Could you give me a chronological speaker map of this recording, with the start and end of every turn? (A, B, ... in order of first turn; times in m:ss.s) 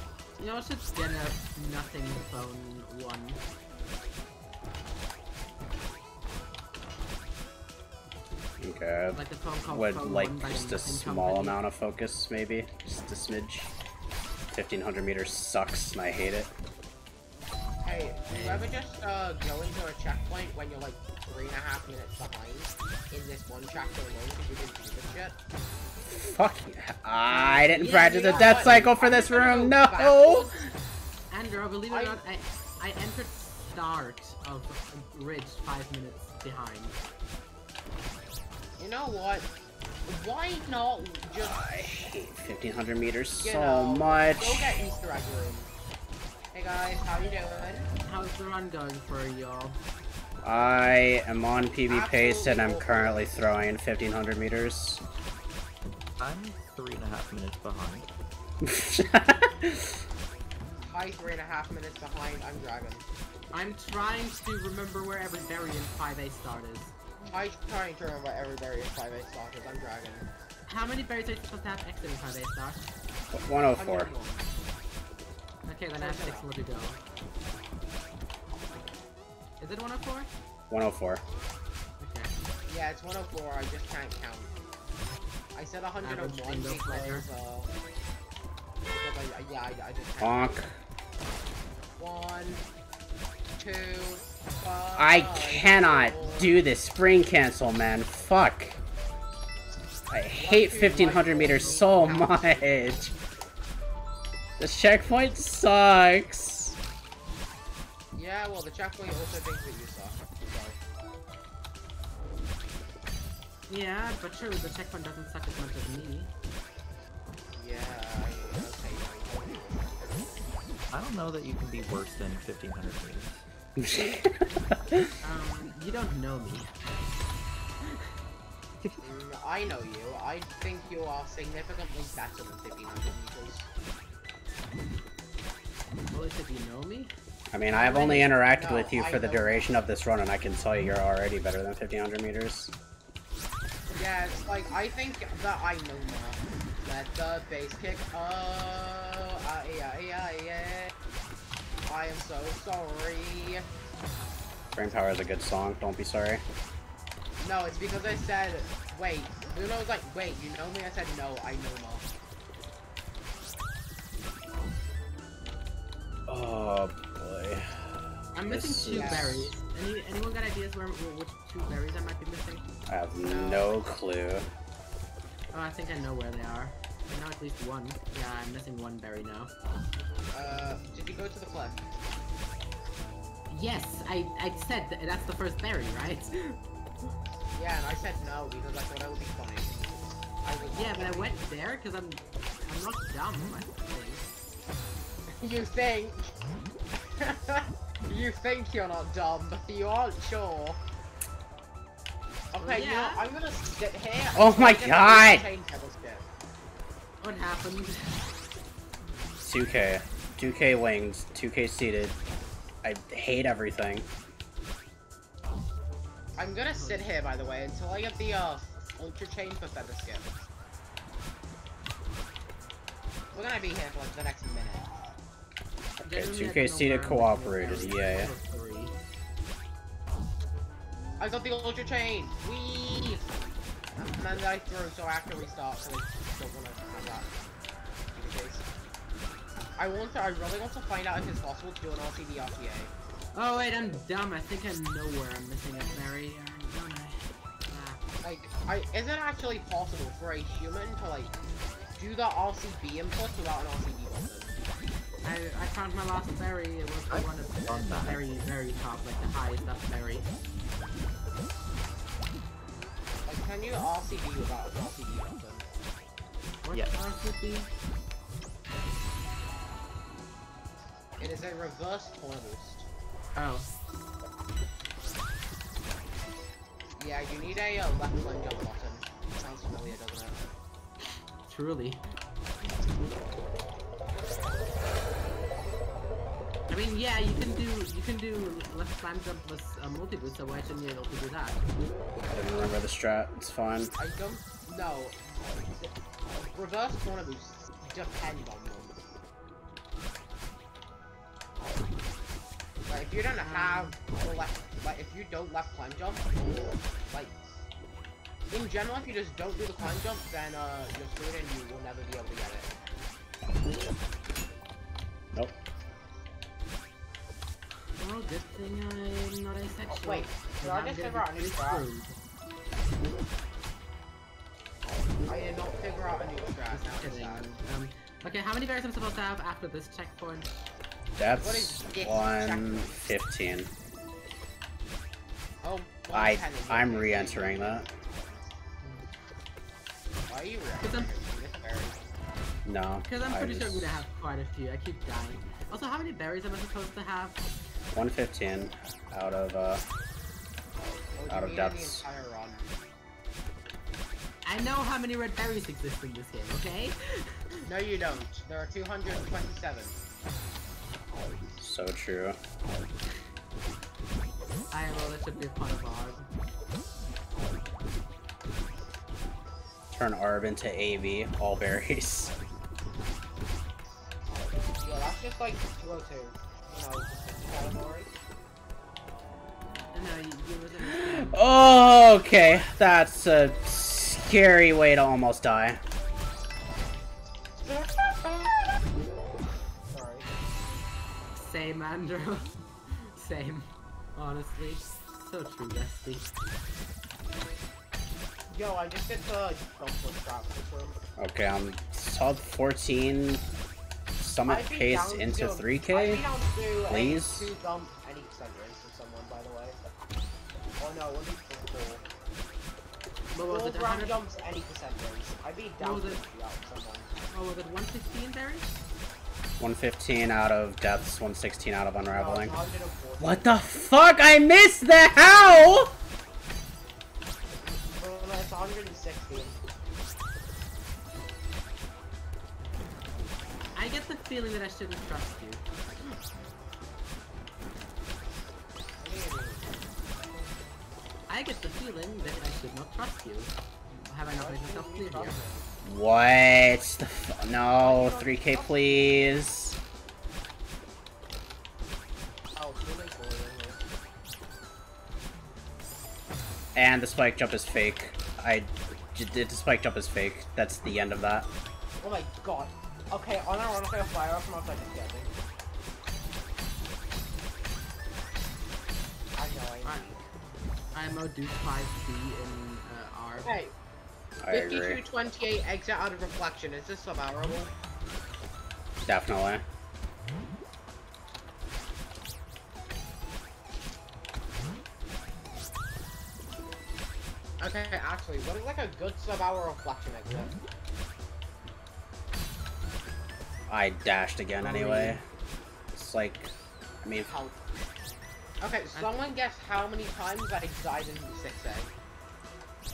0:00.4-0:03.4 A
0:08.6-0:13.7 B
0:09.2-0:11.6 A
0:14.5-0:16.5 B
0:17.8-0:25.4 C
0:18.3-0:18.7 A
0:26.0-0:30.7 B
0:27.3-0:28.8 A
0:27.8-0:30.6 C
0:31.3-0:37.0 A
0:31.9-0:32.2 C
0:38.8-0:39.5 C
0:40.1-0:41.7 C
0:41.4-0:44.8 B
0:43.4-0:45.7 C
0:46.5-0:47.9 C
0:48.1-0:49.8 A
0:50.4-0:55.0 B
0:51.9-0:53.3 C
0:56.2-0:58.1 D
0:58.6-1:00.0 B
1:00.8-1:03.0 C
1:03.5-1:06.9 A
1:07.3-1:10.3 C
1:10.7-1:12.9 A
1:13.3-1:14.1 B
1:13.8-1:14.4 C
1:15.7-1:17.0 A
1:16.0-1:16.5 C
1:19.6-1:20.3 A
1:20.7-1:21.2 B
1:22.0-1:22.3 A
1:22.7-1:24.5 C
1:25.6-1:27.7 C
1:26.0-1:27.3 A
1:28.9-1:30.6 C
1:30.2-1:30.7 B
1:32.0-1:32.7 C
1:33.6-1:36.6 C
1:35.0-1:38.8 B
1:40.1-1:43.1 B
1:40.4-1:42.4 C
1:40.8-1:42.6 A
1:44.6-1:46.8 B
1:48.1-1:50.8 C
1:53.7-1:56.3 A
1:57.6-2:00.3 C
2:00.9-2:03.5 D
2:03.8-2:05.1 B
2:05.2-2:06.7 A
2:09.0-2:13.7 C
2:16.1-2:17.1 A
2:17.5-2:22.7 B
2:17.7-2:18.3 A
2:18.5-2:19.8 C
2:23.9-2:30.9 C
2:31.9-2:33.6 C
2:34.8-2:36.4 B
2:37.4-2:42.1 C
2:46.3-2:47.8 B
2:48.4-2:52.7 A
2:48.5-2:49.5 B
2:48.9-2:49.4 C
2:52.9-2:54.5 B
2:53.3-2:53.6 C
2:55.5-2:59.5 A
3:00.3-3:01.8 C
3:03.5-3:06.6 A
3:07.6-3:11.4 C
3:10.8-3:14.3 A
3:15.4-3:16.3 C
3:17.2-3:20.8 C
3:22.5-3:26.3 C
3:22.6-3:23.2 A
3:24.4-3:25.4 B
3:27.2-3:28.1 A
3:29.4-3:32.2 B
3:32.8-3:34.1 B
3:36.4-3:40.3 C
3:36.7-3:37.1 A
3:43.3-3:45.0 C
3:46.0-3:48.3 B
3:46.0-3:49.0 A
3:51.2-3:53.3 C
3:54.0-3:57.3 C
3:58.1-3:58.6 C
3:59.8-4:02.9 C
4:03.3-4:08.0 A
4:08.2-4:11.4 C
4:12.0-4:14.5 C
4:15.2-4:20.3 A
4:17.1-4:18.2 D
4:23.3-4:25.7 C
4:26.6-4:27.7 A
4:31.2-4:32.9 C
4:33.4-4:33.7 A
4:37.0-4:40.5 C
4:41.5-4:42.0 A
4:46.7-4:51.6 A
4:52.3-4:53.9 B
4:54.0-4:55.2 C
4:55.8-4:59.0 C
5:02.9-5:07.3 C
5:03.4-5:04.0 A
5:08.5-5:12.7 C
5:18.0-5:22.1 A
5:19.9-5:21.8 C
5:25.3-5:27.6 C
5:26.7-5:30.7 A
5:31.2-5:33.7 B
5:31.4-5:32.9 C
5:35.6-5:38.5 C
5:36.1-5:37.9 B
5:38.8-5:39.1 A
5:40.3-5:42.0 C
5:40.8-5:41.1 A
5:42.6-5:44.0 B
5:43.1-5:47.4 A
5:47.9-5:49.8 B
5:51.2-5:52.7 C
5:51.3-5:52.0 B
5:54.4-5:57.6 A
5:57.6-6:00.0 C
6:01.6-6:02.4 B
6:04.7-6:06.3 A
6:09.9-6:12.3 B
6:14.8-6:18.1 C
6:19.9-6:21.5 A
6:20.9-6:25.8 B
6:27.6-6:28.8 C
6:29.9-6:30.3 C
6:31.4-6:36.3 A
6:38.5-6:41.0 C
6:41.2-6:43.4 B
6:44.2-6:46.2 B
6:44.5-6:49.8 C
6:46.9-6:47.5 B
6:50.8-6:52.1 C
6:53.3-6:54.2 A
6:53.5-6:57.1 C
6:55.8-6:56.2 A
6:57.3-6:58.7 A
6:59.6-7:02.6 B
7:02.1-7:03.5 C
7:03.2-7:05.9 B
7:07.6-7:09.6 C
7:13.8-7:16.1 A
7:19.0-7:19.8 C
7:21.3-7:25.4 A
7:24.3-7:25.7 C
7:25.8-7:29.8 B
7:27.8-7:29.2 C
7:32.6-7:33.8 C
7:36.8-7:41.5 B
7:42.0-7:45.3 C
7:49.4-7:50.2 C
7:49.8-7:50.1 A
7:50.9-7:53.6 A
7:53.4-7:53.7 C
7:54.4-7:55.0 B
7:54.5-7:57.7 C
7:59.0-7:59.6 B
8:07.6-8:10.5 C
8:13.7-8:15.2 B
8:14.6-8:15.2 A
8:16.0-8:16.5 B
8:17.0-8:17.3 B
8:17.3-8:17.6 C
8:18.6-8:21.9 C
8:18.9-8:19.2 A